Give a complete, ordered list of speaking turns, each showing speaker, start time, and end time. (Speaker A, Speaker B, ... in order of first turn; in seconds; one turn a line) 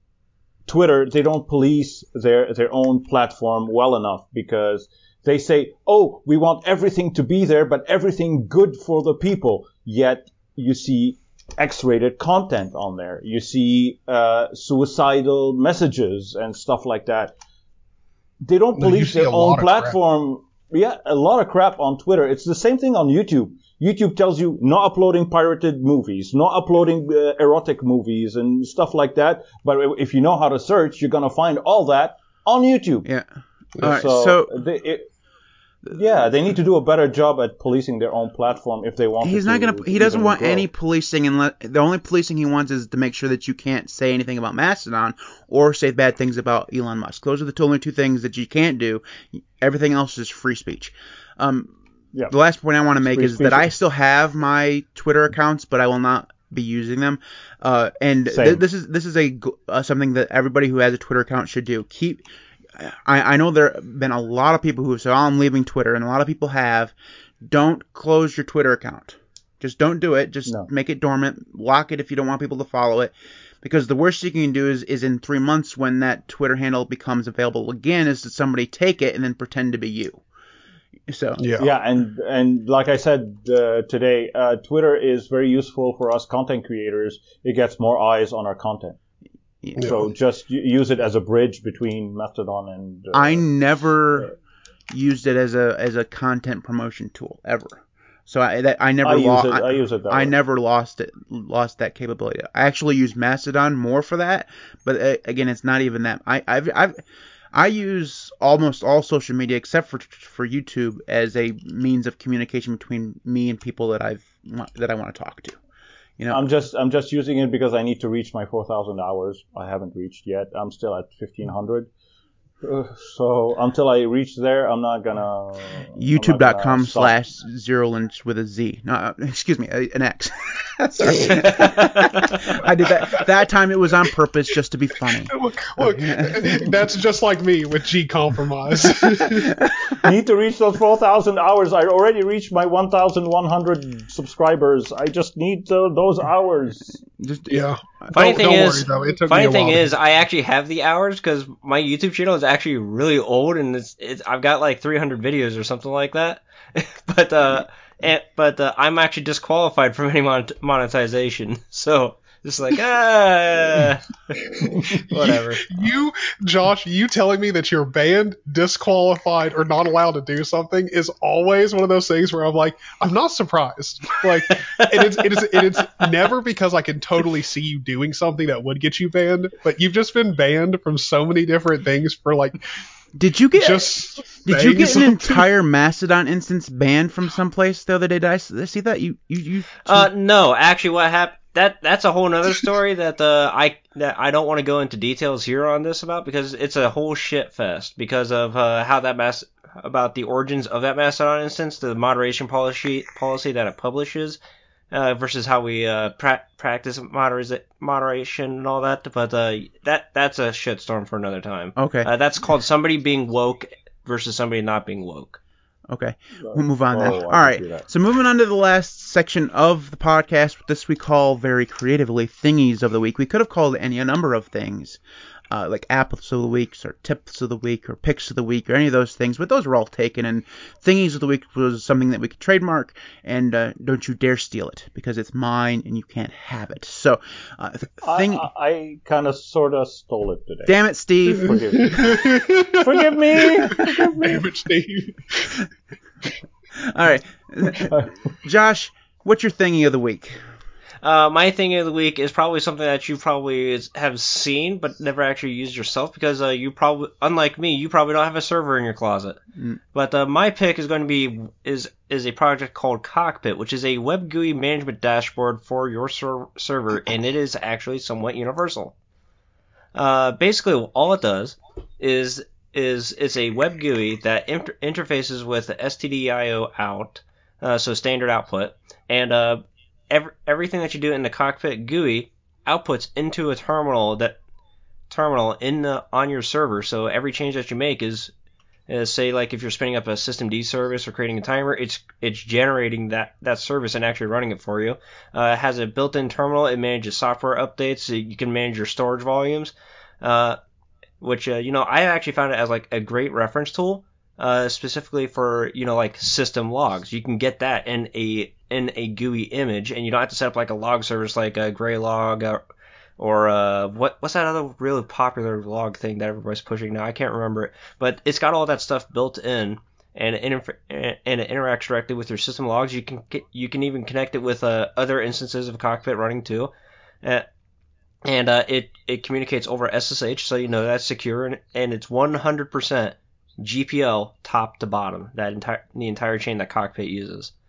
Speaker A: 0.7-17.3
Speaker A: 18.4-33.1
Speaker B: 18.8-20.0
Speaker C: 33.8-34.5
Speaker A: 33.8-35.1
Speaker A: 35.9-40.7
Speaker C: 39.2-51.7
Speaker C: 52.3-62.2
Speaker A: 53.0-53.7
Speaker A: 58.3-58.6
Speaker C: 62.8-80.2
Speaker C: 81.1-81.5
Speaker B: 81.4-81.7
Speaker A: 81.6-89.0
Speaker C: 89.6-90.0
Speaker A: 89.8-93.5
Speaker C: 93.1-94.3
Speaker C: 94.9-107.0
Speaker A: 99.0-100.4
Speaker C: 107.5-115.6
Speaker C: 116.2-116.5
Speaker A: 116.3-121.9
Speaker A: 122.6-127.1
Speaker C: 126.0-136.7
Speaker B: 135.3-139.6
Speaker C: 139.1-140.0
Speaker A: 140.0-147.0
Speaker C: 147.2-148.1
Speaker B: 147.5-149.9
Speaker D: 148.1-165.7
Speaker B: 165.1-182.6
Speaker C: 183.2-190.1
Speaker B: 183.5-185.5
Speaker D: 189.8-204.4
Speaker D: 204.9-215.4
Speaker C: 211.8-212.1
Speaker C: 215.9-225.0
Speaker A: 216.4-217.9
Speaker C: 225.5-238.4
Speaker A: 238.0-240.8
Speaker C: 240.7-242.1
Speaker A: 241.3-242.2
Speaker B: 241.9-245.6
Speaker A: 242.7-244.0
Speaker C: 246.8-250.4
Speaker A: 247.8-248.2
Speaker D: 251.0-259.4
Speaker D: 259.9-268.9
Speaker D: 269.9-284.4
Speaker D: 285.1-288.3
Speaker D: 288.9-300.6
Speaker D: 301.2-312.6
Speaker D: 313.2-327.4
Speaker D: 328.2-337.5